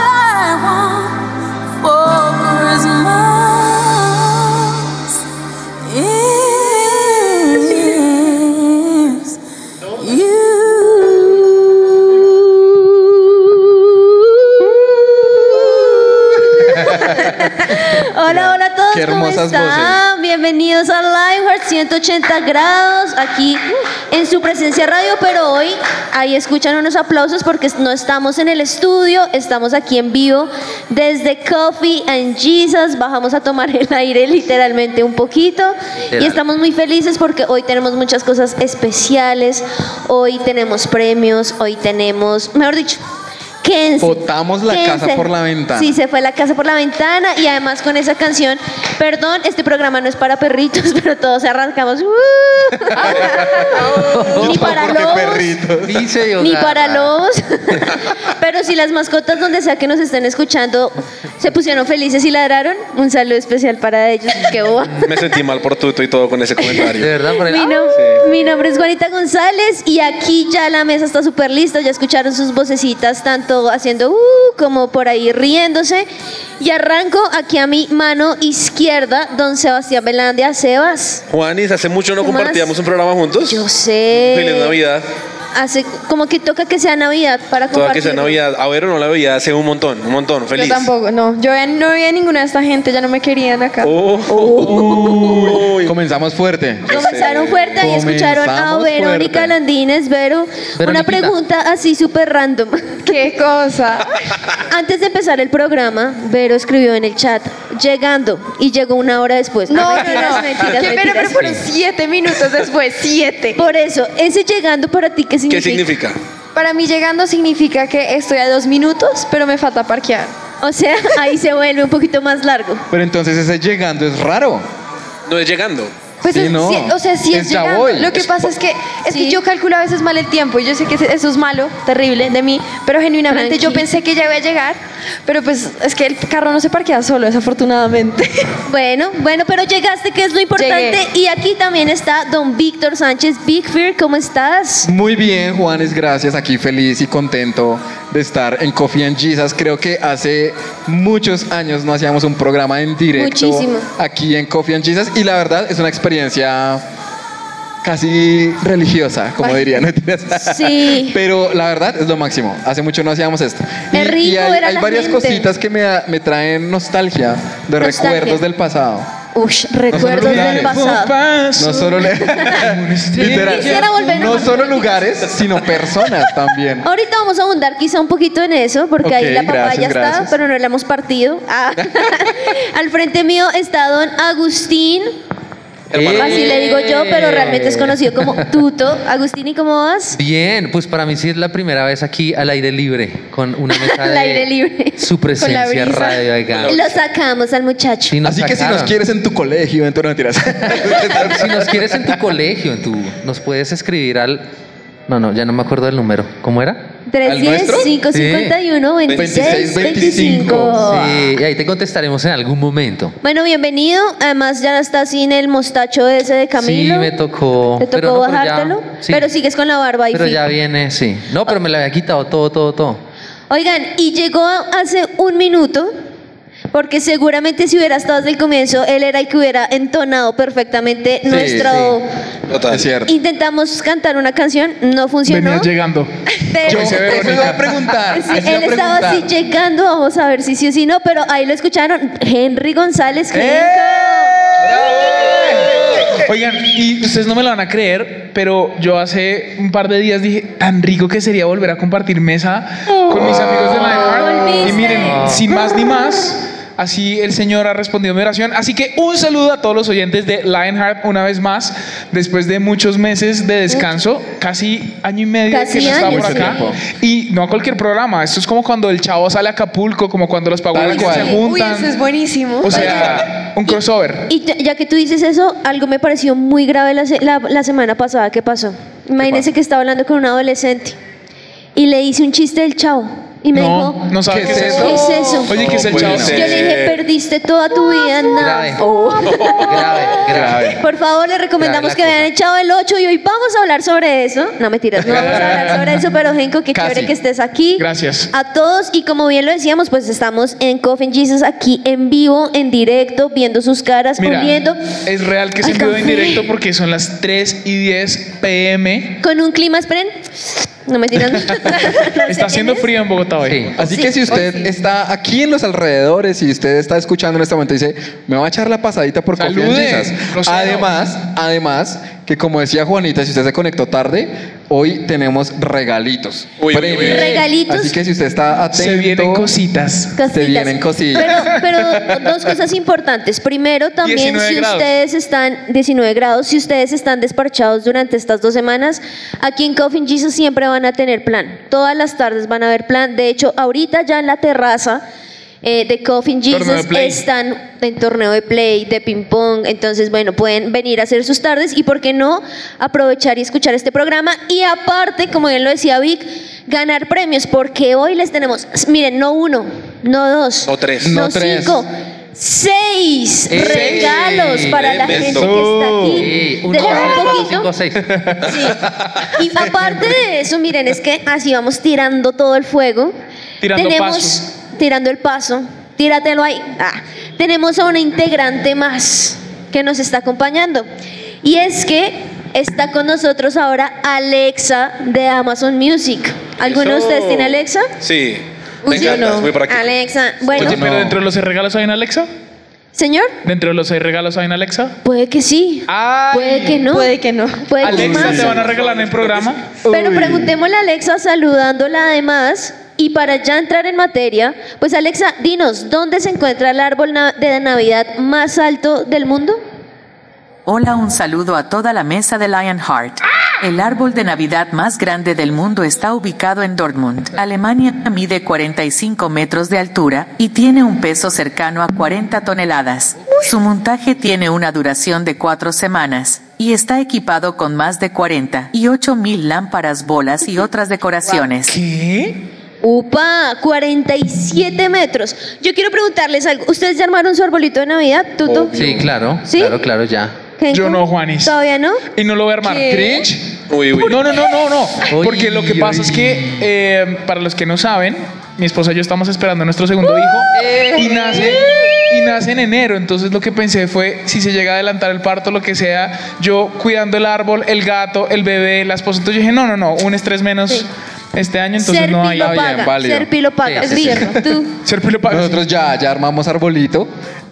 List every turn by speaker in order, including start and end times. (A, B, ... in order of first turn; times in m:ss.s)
0:13.2-0:43.0 A
0:16.6-0:17.5 B
0:18.3-0:20.0 B
0:36.1-0:36.4 C
0:43.6-0:55.6 A
0:44.0-0:45.9 B
0:52.9-0:56.0 B
0:54.0-0:55.0 C
0:55.8-0:57.1 C
0:56.4-1:05.1 A
1:05.0-1:07.1 D
1:06.8-1:08.0 C
1:07.5-1:16.1 A
1:16.6-1:21.2 A
1:21.3-1:23.7 D
1:22.2-1:22.7 A
1:23.5-1:24.8 A
1:24.2-1:25.1 D
1:25.5-1:28.4 A
1:27.7-1:30.9 D
1:30.5-1:35.5 E
1:33.8-1:35.9 D
1:34.6-1:36.9 B
1:36.9-1:43.1 A
1:36.9-1:37.7 D
1:37.8-1:39.6 B
1:40.8-1:41.4 C
1:43.1-1:44.2 E
1:44.7-1:51.6 A
1:49.7-1:53.6 E
1:53.6-1:55.9 A
1:55.5-1:56.2 D
1:56.6-2:00.3 E
2:00.6-2:02.8 A
2:02.9-2:04.6 B
2:05.3-2:05.9 D
2:06.2-2:18.4 E
2:06.3-2:08.3 B
2:09.1-2:09.4 A
2:13.3-2:13.8 A
2:18.7-2:24.9 A
2:20.6-2:21.0 E
2:24.8-2:36.8 B
2:33.2-2:33.9 A
2:37.8-2:49.1 B
2:40.4-2:41.2 A
2:43.9-2:45.5 A
2:47.8-2:48.4 A
2:49.4-2:51.1 A
2:49.9-2:50.8 B
2:50.0-2:54.3 F
2:51.6-2:56.9 B
2:53.2-2:55.0 A
2:56.8-3:05.1 A
2:59.0-3:00.4 B
3:05.9-3:06.6 D
3:05.9-3:08.3 C
3:06.2-3:10.2 A
3:10.1-3:14.5 C
3:13.7-3:15.0 A
3:15.0-3:16.9 C
3:15.4-3:16.2 E
3:16.5-3:16.8 D
3:16.7-3:18.1 A
3:18.1-3:18.9 C
3:18.2-3:22.2 B
3:20.8-3:24.5 C
3:25.1-3:26.8 C
3:27.1-3:31.2 A
3:27.2-3:27.9 B
3:28.1-3:28.6 C
3:29.1-3:29.6 D
3:29.2-3:30.9 B
3:30.8-3:33.2 C
3:33.2-3:37.1 A
3:36.6-3:39.3 C
3:37.8-3:40.4 A
3:40.1-3:43.0 C
3:43.5-3:45.9 A
3:46.7-3:52.1 A
3:51.3-3:51.7 B
3:51.6-3:52.0 C
3:52.5-3:52.8 D
3:52.7-3:53.1 B
3:53.1-3:55.7 A
3:55.3-3:56.1 F
3:56.3-4:04.4 A
3:56.6-3:59.3 B
3:56.7-3:57.6 F
4:03.3-4:32.0 F
4:13.8-4:15.3 A
4:14.9-4:15.4 C
4:25.5-4:26.6 A
4:25.8-4:26.8 B
4:30.7-4:31.4 B
4:30.8-4:33.1 E
4:32.6-4:34.2 F
4:32.7-4:41.0 A
4:41.8-4:45.6 A
4:43.5-4:46.6 F
4:44.3-4:46.5 B
4:45.5-4:47.0 D
4:46.1-5:04.8 A
4:48.4-4:48.8 C
4:49.3-4:49.6 D
4:49.6-4:50.7 C
4:50.3-4:50.8 B
4:51.6-4:52.3 C
4:55.0-4:55.8 B
4:56.7-4:57.1 B
4:57.8-4:58.3 F
5:04.2-5:09.2 F
5:05.7-5:06.4 A
5:09.2-5:12.9 A
5:12.2-5:13.8 F
5:13.4-5:13.7 C
5:13.8-5:29.5 B
5:13.8-5:14.6 A
5:19.4-5:20.9 F
5:26.6-5:27.4 D
5:27.0-5:28.0 A
5:28.7-5:30.1 F
5:30.2-5:45.0 A
5:30.3-5:31.6 B
5:34.0-5:34.9 F
5:45.6-6:07.7 A
5:46.5-5:47.2 F
6:00.7-6:01.1 D
6:01.0-6:01.8 B
6:03.5-6:04.8 C
6:03.6-6:04.1 F
6:04.7-6:05.6 D
6:05.2-6:06.3 B
6:06.2-6:08.1 C
6:08.5-6:08.8 A
6:09.3-6:13.2 A
6:13.6-6:14.4 F
6:13.8-6:20.9 A
6:21.4-6:27.9 A
6:26.6-6:29.9 D
6:28.9-6:30.8 A
6:28.9-6:29.5 E
6:30.6-6:31.2 B
6:30.6-6:32.3 F
6:33.0-6:33.4 A
6:33.4-6:35.0 F
6:35.0-6:37.1 A
6:35.9-6:36.8 F
6:36.9-6:37.7 E
6:37.6-6:38.6 A
6:37.8-6:39.7 F
6:37.8-6:38.8 B
6:38.7-6:39.5 D
6:39.8-6:40.5 B
6:39.8-6:49.6 A
6:50.7-7:11.8 G
7:11.6-7:12.4 F
7:12.8-7:18.8 A
7:18.4-7:19.1 D
7:18.8-7:20.4 C
7:19.5-7:19.8 A
7:20.6-7:22.0 A
7:20.7-7:21.6 F
7:22.2-7:23.2 F
7:22.8-7:23.4 B
7:23.7-7:24.2 D
7:24.0-7:42.7 F
7:25.1-7:26.6 C
7:30.5-7:31.5 C
7:41.8-7:44.7 A
7:42.4-7:43.3 B
7:43.6-7:44.3 C
7:43.9-7:44.5 B
7:44.8-7:45.6 F
7:45.3-7:47.1 B